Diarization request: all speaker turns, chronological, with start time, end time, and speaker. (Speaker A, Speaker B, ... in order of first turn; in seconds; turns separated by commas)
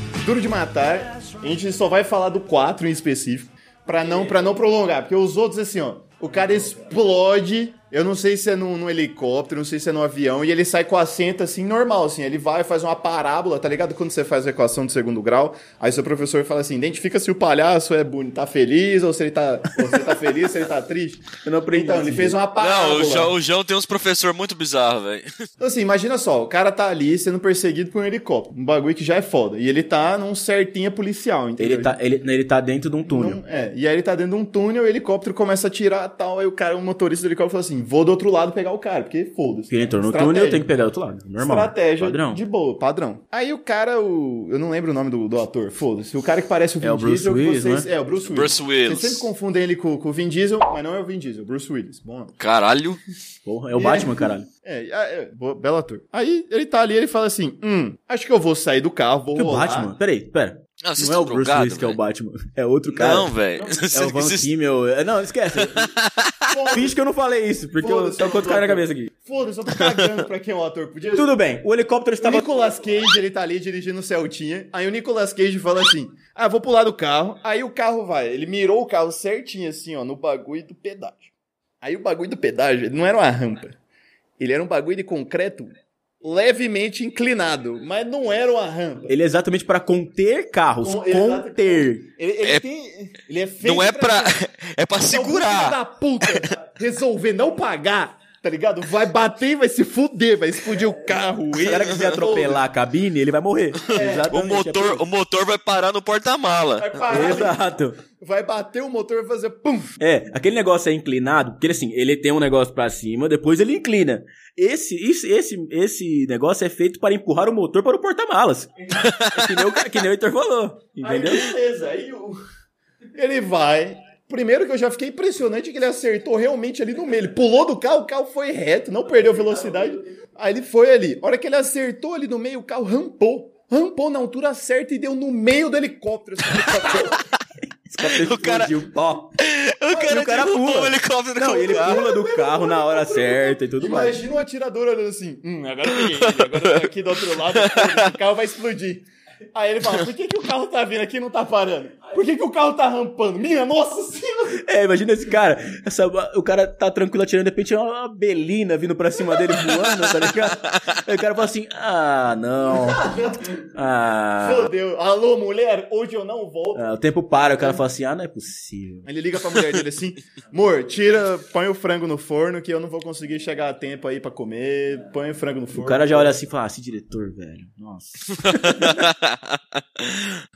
Speaker A: 0.2-23.3, Speaker B: 21.4-22.4, Speaker C: 22.6-25.4, Speaker A: 25.6-31.9, Speaker B: 31.6-33.4, Speaker A: 33.0-40.7, Speaker B: 39.7-42.4, Speaker A: 41.4-52.4, Speaker B: 46.8-47.9, Speaker C: 48.2-49.3, Speaker C: 52.4-53.0, Speaker B: 53.4-54.5, Speaker A: 53.7-59.9, Speaker B: 59.3-65.9, Speaker C: 60.8-62.0, Speaker C: 62.9-64.5, Speaker C: 65.8-66.6, Speaker A: 66.5-67.0, Speaker B: 66.7-69.1, Speaker A: 67.8-71.3, Speaker C: 69.8-70.1, Speaker B: 71.1-72.5, Speaker A: 72.2-83.8, Speaker A: 84.4-85.7, Speaker A: 86.2-89.1, Speaker B: 89.1-92.1, Speaker A: 90.8-94.4, Speaker C: 93.6-96.5, Speaker A: 95.1-102.7, Speaker B: 101.6-105.0, Speaker A: 103.9-104.3, Speaker C: 104.3-107.0, Speaker A: 106.8-109.9, Speaker B: 107.1-108.0, Speaker B: 110.0-121.5, Speaker C: 119.0-119.6, Speaker A: 121.0-122.4, Speaker A: 123.1-137.2, Speaker B: 137.9-139.4, Speaker C: 138.0-138.8, Speaker C: 139.4-142.0, Speaker B: 140.0-144.2, Speaker A: 141.6-154.6, Speaker C: 145.9-148.1, Speaker B: 154.6-163.1, Speaker A: 162.7-163.6, Speaker B: 163.7-164.7, Speaker A: 164.4-166.8, Speaker B: 166.7-169.1, Speaker A: 169.1-176.3, Speaker B: 175.7-179.0, Speaker C: 178.4-180.4